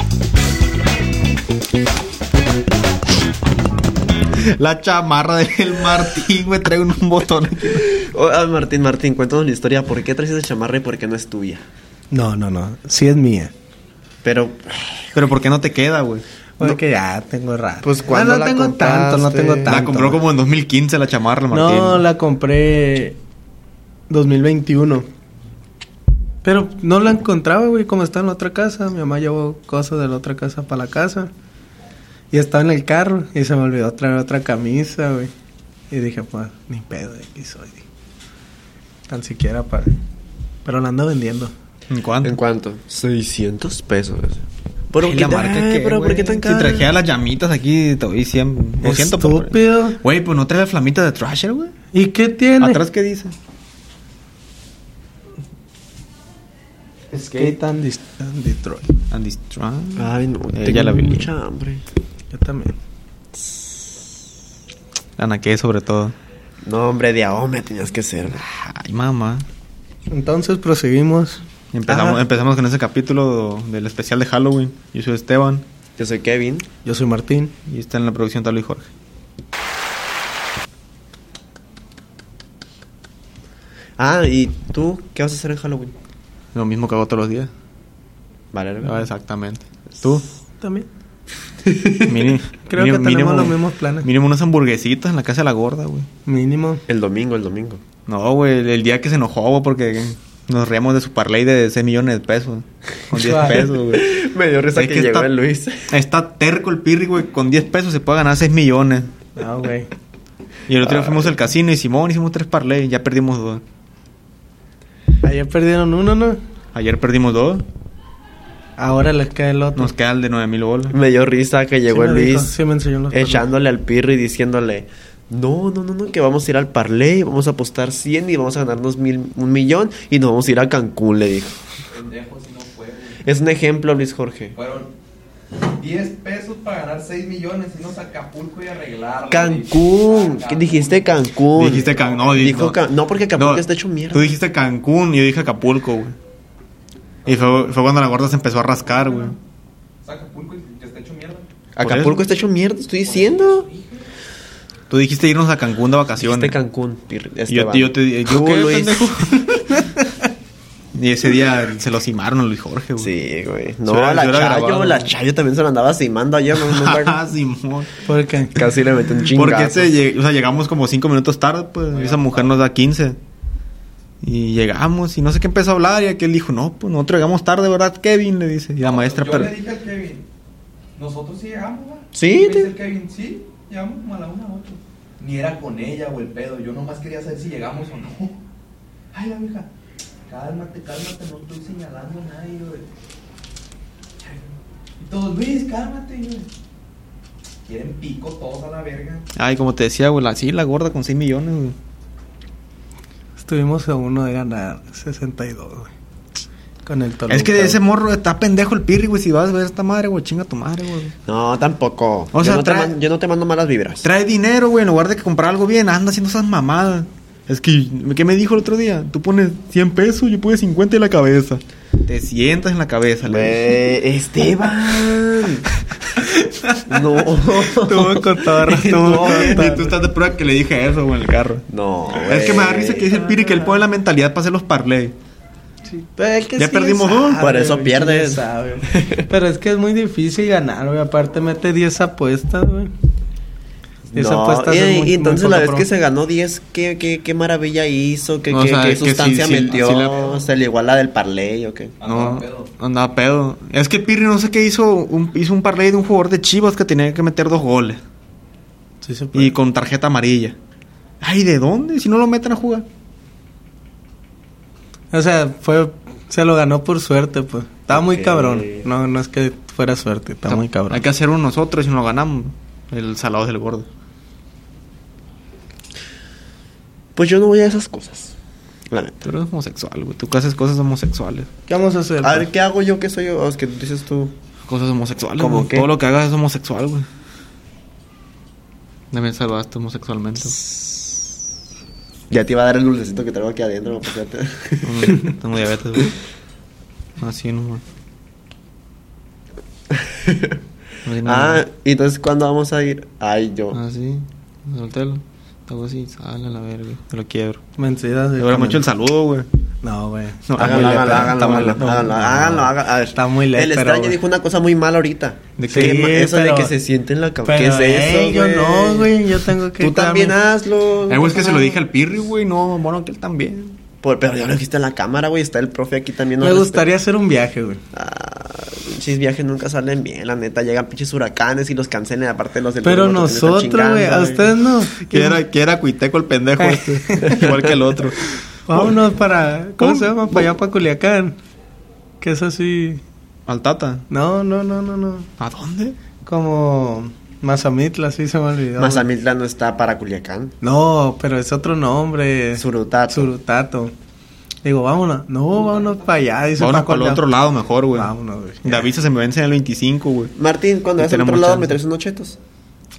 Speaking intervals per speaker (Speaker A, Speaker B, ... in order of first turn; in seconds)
Speaker A: 4.3-7.9, 15.1-16.2, 19.7-22.0, 41.9-42.4, 45.0-51.7, 52.6-53.3, 59.1-61.3, 65.2-66.1, 68.3-69.5, 71.7-75.6, 77.7-78.9, 86.5-87.5, 88.8-90.2, 92.0-96.1, 98.1-104.1, 104.7-105.3, 105.9-109.1, 110.7-113.6, 116.7-117.7, 119.7-121.0, 141.5-142.8, 143.3-146.2, 147.2-149.3, 151.8-152.2, 154.9-156.6, 157.5-159.8, 160.9-163.1, 163.8-165.1, 166.5-167.9, 169.3-173.2, 174.2-179.5, 199.3-201.8, 207.3-211.1, 212.3-212.9, 214.0-223.6, 229.1-231.6, 232.2-235.1, 236.6-237.4, 248.5-250.2, 252.0-258.0, 259.3-260.6, 261.2-262.9, 270.5-273.9, 279.2-281.5, 284.6-287.1, 289.1-290.6, 294.8-296.1, 297.2-297.8, 301.0-301.6, 303.7-307.6, 308.4-309.5, 310.5-312.7, 315.6-315.9, 321.1-323.8, 335.0-339.0, 339.8-340.5, 343.5-344.0, 345.4-346.0, 356.6-358.1, 358.6-360.3, 361.0-361.8
Speaker B: 7.7-11.7, 14.2-15.1, 17.8-19.8, 42.2-46.9, 60.0-61.8, 63.3-64.2, 66.6-68.4, 71.9-72.2, 76.0-76.7, 84.0-86.0, 88.5-89.0, 91.6-92.1, 96.9-97.8, 103.7-105.9, 110.8-111.3, 120.9-122.5, 123.1-131.6, 133.2-134.5, 139.3-144.3, 151.7-153.7, 156.2-159.5, 163.0-167.2, 168.5-169.9, 182.1-182.7, 211.3-214.1, 223.2-225.7, 226.8-229.6, 231.7-233.1, 237.4-239.3, 244.1-251.9, 267.9-268.9, 277.1-278.4, 278.9-279.2, 282.2-284.3, 285.4-285.9, 290.5-291.2, 292.3-295.3, 299.9-300.6, 301.2-303.8, 310.6-319.1, 319.8-321.8, 324.0-326.9, 327.9-334.4, 348.8-350.6, 352.5-353.3, 360.4-362.4
Speaker C: 12.1-13.5, 16.6-20.2, 21.5-23.2, 24.1-25.1, 26.4-31.3, 32.3-35.3, 35.9-37.8, 39.1-39.9, 40.6-41.5, 48.8-50.0, 51.9-52.8, 57.1-59.0, 62.3-62.8, 70.1-71.4, 76.8-77.5, 90.6-90.9, 92.7-94.1, 96.2-96.8, 103.1-103.6, 109.3-109.9, 115.2-116.4, 118.8-119.9, 121.9-123.5, 168.0-168.6, 203.4-205.9, 206.8-207.8, 227.2-229.9, 235.9-242.9, 244.1-245.9, 259.0-259.5, 265.1-271.0, 281.7-282.5, 307.8-308.8, 309.8-312.2, 313.1-314.2, 315.7-316.7, 317.4-320.4, 326.4-327.8, 332.8-335.4, 336.6-337.5, 338.7-341.4, 342.2-343.0, 344.1-345.3, 346.2-349.1, 350.6-353.9, 354.6-357.2, 357.9-358.9
Speaker D: 131.9-133.2, 134.5-134.9, 135.6-142.6, 147.2-147.6, 148.9-149.4, 150.0-151.5, 153.0-154.1, 171.9-172.5, 178.8-180.2, 180.9-188.4, 189.1-189.7, 190.3-192.9, 194.2-196.5, 197.7-199.2, 249.7-250.4, 252.0-252.7, 355.5-356.2